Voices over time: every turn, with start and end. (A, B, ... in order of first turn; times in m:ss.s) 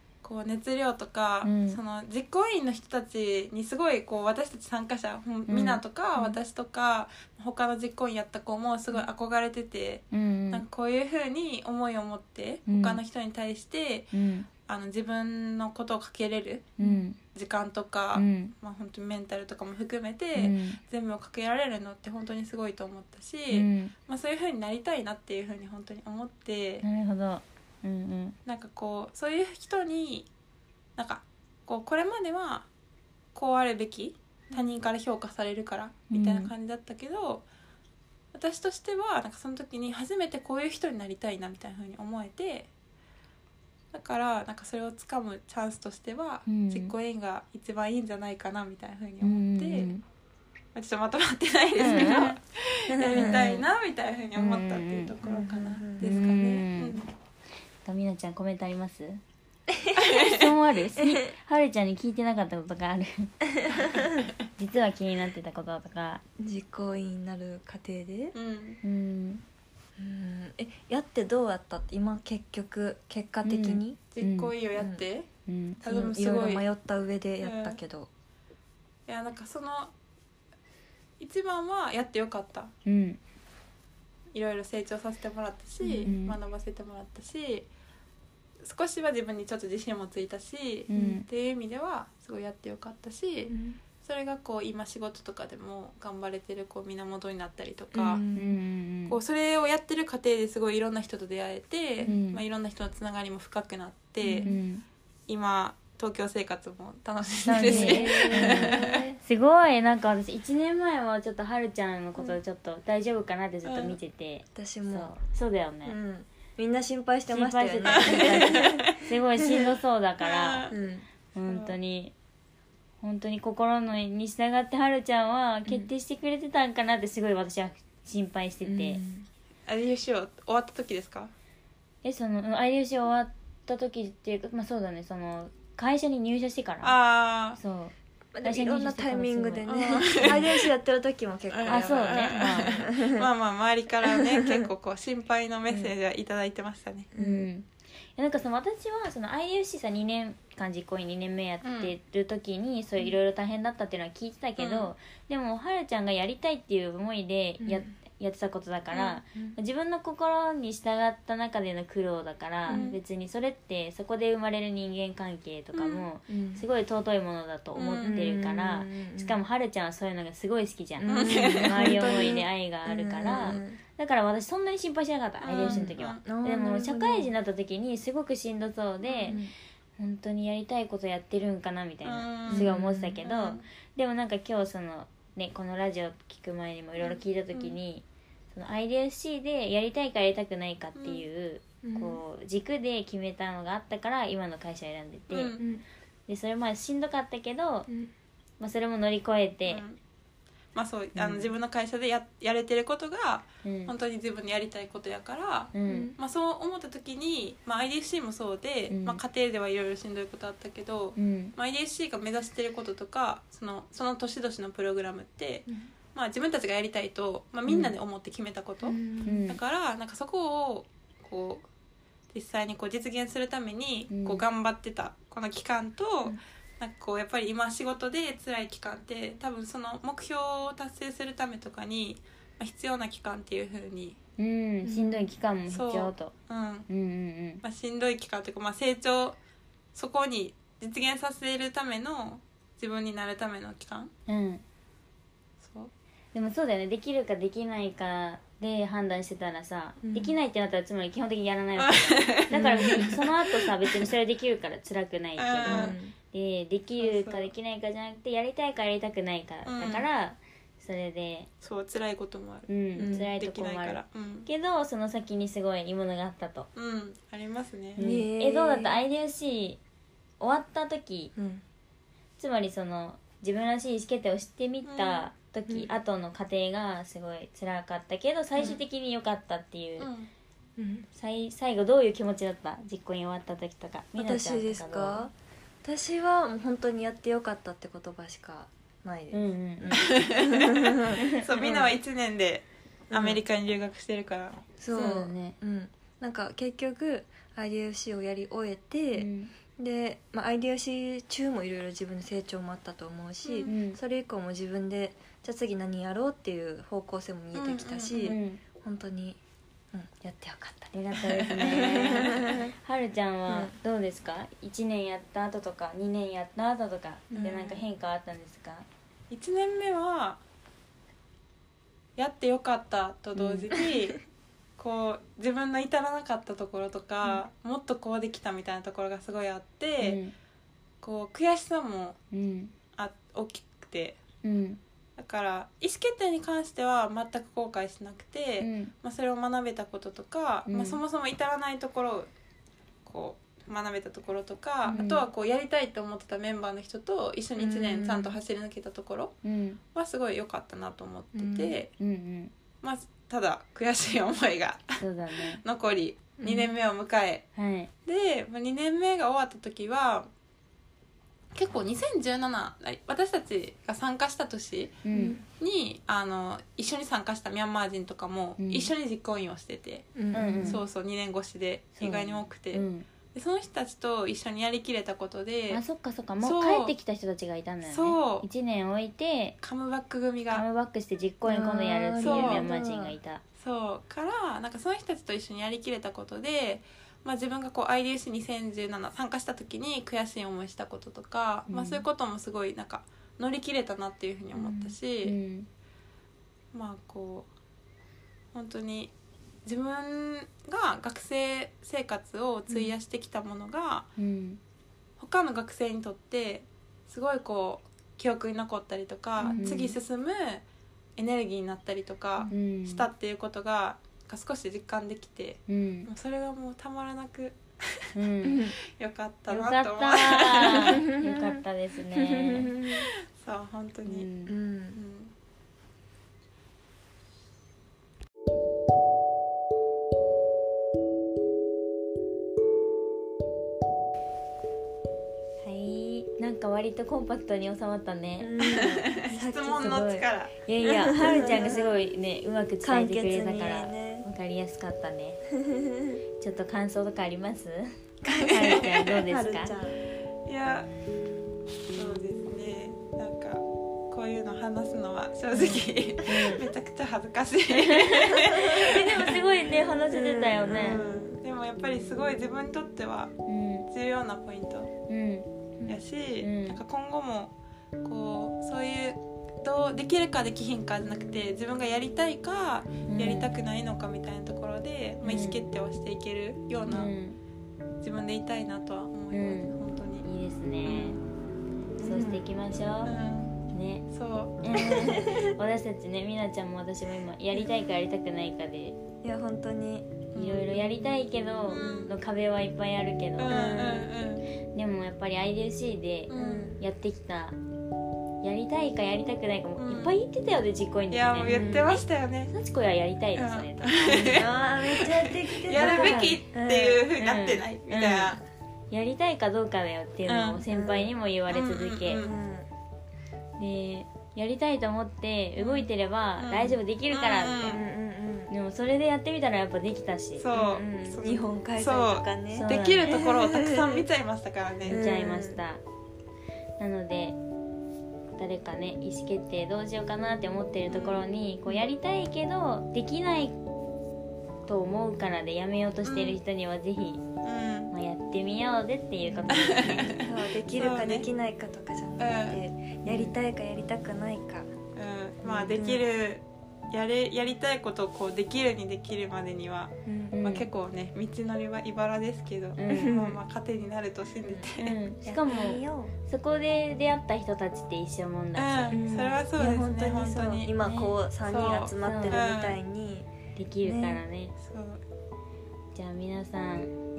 0:00.2-0:14.1 A
0:01.4-0:01.8 B
0:05.5-0:05.8 B
0:10.1-0:10.6 B
0:12.7-0:13.0 B
0:14.1-0:14.5 B
0:14.6-0:16.7 A
0:16.8-0:17.2 B
0:17.3-0:26.8 A
0:18.1-0:18.5 B
0:20.4-0:20.8 B
0:23.5-0:23.9 B
0:26.8-0:28.4 B
0:28.4-0:30.3 A
0:31.0-0:32.7 A
0:33.3-0:37.4 A
0:36.1-0:36.5 B
0:38.3-0:42.7 A
0:43.9-0:49.9 A
0:46.5-0:46.9 B
0:49.2-0:50.0 B
0:50.7-0:57.1 A
0:51.8-0:52.4 B
0:52.9-0:53.5 C
0:53.1-0:53.7 B
0:54.4-0:55.1 B
0:55.2-0:56.1 C
0:56.0-0:57.0 B
0:57.8-0:59.2 B
1:00.0-1:00.5 A
1:00.1-1:03.9 B
1:03.7-1:04.0 C
1:04.6-1:06.2 B
1:06.4-1:08.3 C
1:08.3-1:08.8 A
1:08.8-1:09.4 B
1:10.0-1:14.0 C
1:13.4-1:14.5 B
1:14.1-1:15.3 A
1:14.8-1:15.0 C
1:15.4-1:15.8 B
1:15.8-1:16.6 A
1:15.8-1:18.1 C
1:17.4-1:17.8 A
1:19.1-1:19.9 A
1:21.2-1:22.7 A
1:22.8-1:23.2 B
1:24.3-1:27.7 A
1:25.8-1:26.1 C
1:26.0-1:26.4 B
1:28.6-1:38.2 A
1:30.9-1:31.2 B
1:30.9-1:31.2 C
1:33.5-1:33.8 C
1:37.9-1:38.6 C
1:38.3-1:39.2 B
1:39.1-1:44.5 A
1:42.0-1:42.4 B
1:44.2-1:44.6 C
1:44.4-1:44.8 B
1:45.3-1:49.0 A
1:47.4-1:56.0 B
1:47.6-1:49.2 C
1:53.6-1:54.0 A
1:54.5-1:55.1 C
1:55.8-1:59.0 C
1:57.3-2:00.7 B
1:57.9-1:59.0 A
2:00.2-2:00.7 A
2:00.7-2:01.0 C
2:01.3-2:02.1 B
2:01.5-2:01.8 A
2:03.0-2:09.0 B
2:08.6-2:09.3 C
2:09.7-2:11.3 A
2:12.0-2:17.0 B
2:16.8-2:17.6 A
2:17.6-2:20.4 B
2:18.3-2:23.3 C
2:19.6-2:20.6 A
2:21.5-2:27.1 A
2:21.7-2:22.8 B
2:24.0-2:24.6 C
2:27.1-2:27.5 C
2:27.2-2:59.4 B
2:31.6-2:31.9 A
2:34.6-2:34.9 A
2:37.6-2:37.9 C
2:38.9-2:39.2 A
2:42.7-2:43.0 C
2:42.7-2:43.0 A
2:45.7-2:46.0 A
2:46.3-2:46.6 C
2:47.7-2:48.2 A
2:48.0-2:49.4 C
2:51.0-2:53.8 C
2:51.1-2:52.4 A
2:55.4-2:56.2 A
2:55.6-2:57.3 C
2:59.0-2:59.4 A
2:59.3-2:59.5 C
3:00.0-3:15.6 B
3:02.0-3:03.6 A
3:02.5-3:03.2 C
3:11.0-3:11.2 A
3:11.8-3:12.2 C
3:15.3-3:15.6 A
3:15.6-3:15.8 C
3:16.3-3:17.9 B
3:18.6-3:19.8 B
3:19.6-3:20.0 A
3:20.7-3:41.6 A
3:21.2-3:21.5 B
3:23.6-3:23.9 B
3:25.7-3:26.1 B
3:25.8-3:26.1 C
3:28.9-3:29.2 B
3:31.2-3:31.5 B
3:38.8-3:39.4 C
3:39.2-3:39.6 B
3:42.3-3:54.2 A
3:44.1-3:44.4 B
3:54.4-3:56.3 B
3:54.8-3:55.3 C
3:55.7-3:56.9 A
3:56.9-3:57.6 B
3:57.6-3:59.4 A
3:59.9-4:04.1 A
4:04.3-4:04.6 B
4:05.6-4:05.9 A
4:06.3-4:21.5 B
4:10.0-4:10.3 C
4:11.8-4:13.7 A
4:12.5-4:13.1 C
4:15.4-4:16.0 A
4:15.6-4:16.1 C
4:17.0-4:17.5 A
4:19.6-4:20.1 A
4:21.6-4:24.5 A
4:22.7-4:26.7 B
4:23.0-4:23.3 C
4:26.7-4:28.0 A
4:28.0-4:29.8 B
4:28.0-4:29.0 C
4:30.4-4:31.3 B
4:31.3-4:31.6 C
4:32.4-4:40.1 B
4:34.8-4:35.3 A
4:40.0-4:40.3 A
4:40.8-4:41.1 C
4:41.1-4:45.3 B
4:44.2-4:52.0 C
4:49.3-4:50.1 B
4:50.0-4:54.7 A
4:51.1-4:51.4 B
4:53.1-4:53.4 C
4:54.8-5:09.4 C
4:54.9-4:55.6 B
4:59.2-4:59.5 B
5:03.4-5:03.7 A
5:03.7-5:04.0 B
5:07.5-5:08.4 A
5:08.2-5:08.6 B
5:09.9-5:10.9 C
5:10.9-5:18.8 B
5:11.2-5:12.5 A
5:11.6-5:12.7 C
5:13.5-5:13.7 C
5:17.3-5:17.8 C
5:17.4-5:17.8 A
5:19.3-5:20.4 A
5:22.2-5:24.2 A
5:23.4-5:23.7 B
5:24.8-5:30.2 A
5:30.0-5:30.3 B
5:31.0-5:32.2 A
5:32.3-5:32.7 B
5:33.0-5:34.2 A
5:34.4-5:34.8 B
5:35.2-5:42.3 A
5:38.6-5:38.9 B
5:40.7-5:41.0 B
5:43.0-5:49.4 A
5:44.9-5:45.2 B
5:47.6-5:48.4 C
5:49.4-5:49.8 B
5:49.9-5:51.9 A
5:51.3-5:51.8 C
5:52.0-5:52.5 B
5:52.8-5:57.4 A
5:55.0-5:55.6 B
5:56.4-5:56.7 C
5:57.6-5:57.9 B
5:58.0-6:00.3 A
6:01.5-6:10.1 A
6:05.0-6:05.4 B
6:05.1-6:05.4 C
6:08.6-6:08.9 B
6:10.2-6:10.8 C
6:10.3-6:10.8 B
6:10.6-6:15.8 A
6:12.0-6:13.1 B
6:15.7-6:19.6 B
6:16.4-6:16.9 A
6:17.8-6:18.5 A
6:19.6-6:20.6 A
6:20.5-6:23.4 B
6:21.4-6:23.1 C
6:22.2-6:22.6 A
6:23.6-6:35.3 A
6:31.7-6:32.0 B
6:34.5-6:35.0 C
6:35.2-6:35.7 B
6:36.7-6:37.5 A
6:38.5-6:39.1 A
6:39.6-6:44.1 A
6:44.2-6:44.6 B
6:45.2-6:50.6 A
6:49.4-6:49.7 C
6:49.5-6:50.0 B
6:51.2-6:58.1 A
6:52.5-6:53.1 B
6:55.7-6:56.1 B
6:58.1-6:58.7 B
6:58.4-6:58.7 C
6:58.8-7:01.0 A
6:59.5-7:02.8 B
7:01.0-7:01.6 C
7:02.1-7:03.1 C
7:02.8-7:04.3 A
7:04.0-7:04.5 B
7:04.5-7:05.0 C
7:04.9-7:05.3 A
7:15.6-7:18.5 B
7:18.4-7:20.0 C
7:18.6-7:20.5 A
7:19.8-7:25.4 B
7:20.8-7:21.9 C
7:22.8-7:24.3 C
7:25.6-7:26.2 C
7:26.4-7:27.9 B
7:28.2-7:30.0 C
7:28.4-7:29.1 A
7:28.5-7:29.7 B
7:30.4-7:30.9 A
7:31.9-7:39.3 A
7:35.6-7:36.6 B
7:37.7-7:41.0 B
7:38.3-7:39.2 C
7:40.1-7:41.0 C
7:40.7-7:43.3 A
7:43.4-7:43.9 B
7:43.9-7:44.9 A
7:45.1-7:45.5 B
7:45.9-7:47.5 A
7:46.4-7:46.8 B
7:48.0-7:57.1 A
7:53.1-7:53.5 B
7:55.2-7:55.6 B
7:56.9-7:57.4 B
7:58.0-8:00.2 A
7:59.3-8:01.2 B
8:00.8-8:01.2 A
8:02.0-8:03.1 B
8:02.0-8:02.4 C
8:03.0-8:03.6 A
8:03.7-8:04.0 B
8:04.1-8:04.6 A
8:04.6-8:09.0 B
8:04.8-8:05.5 C
8:09.2-8:10.3 C
8:10.3-8:10.8 A
8:10.3-8:14.0 B
8:11.7-8:12.1 A
8:13.4-8:14.4 A
8:13.5-8:14.1 C
8:14.7-8:17.6 B
8:16.3-8:16.7 A
8:16.4-8:16.8 C
8:18.4-8:24.5 B
8:19.8-8:20.2 A
8:21.1-8:22.5 A
8:21.4-8:21.9 C
8:23.4-8:28.4 A
8:24.1-8:27.0 C
8:25.7-8:26.4 B
8:27.2-8:28.4 B
8:28.9-8:32.2 B
8:30.3-8:30.6 A
8:30.7-8:31.1 C
8:31.5-8:32.4 A
8:32.2-8:32.7 C
8:33.6-8:37.8 B
8:35.6-8:37.8 A
8:37.6-8:38.5 C
8:38.5-8:41.1 B
8:40.4-8:45.0 A
8:40.5-8:44.0 C
8:42.5-8:43.2 B
8:44.8-8:45.6 C
8:44.9-8:45.8 B
8:46.8-8:47.4 B
8:48.4-8:53.6 B
8:50.9-8:51.2 A
8:54.6-8:57.2 B
8:56.0-8:56.4 A
8:57.4-8:57.9 A
8:57.9-9:00.1 B
8:59.3-9:04.7 C
8:59.5-9:01.2 A
9:02.2-9:02.6 A
9:03.0-9:03.3 B
9:05.0-9:15.0 A
9:05.4-9:06.0 C
9:05.5-9:06.0 B
9:10.0-9:10.3 C
9:10.3-9:10.6 B
9:12.8-9:13.3 B
9:12.9-9:13.4 C
9:14.8-9:19.0 B
9:15.2-9:16.1 C
9:18.6-9:20.7 A
9:18.9-9:23.3 C
9:20.8-9:21.1 B
9:21.5-9:22.8 A
9:22.0-9:22.4 B
9:23.5-9:24.5 B
9:23.8-9:24.2 C
9:24.6-9:25.0 A
9:25.9-9:26.9 B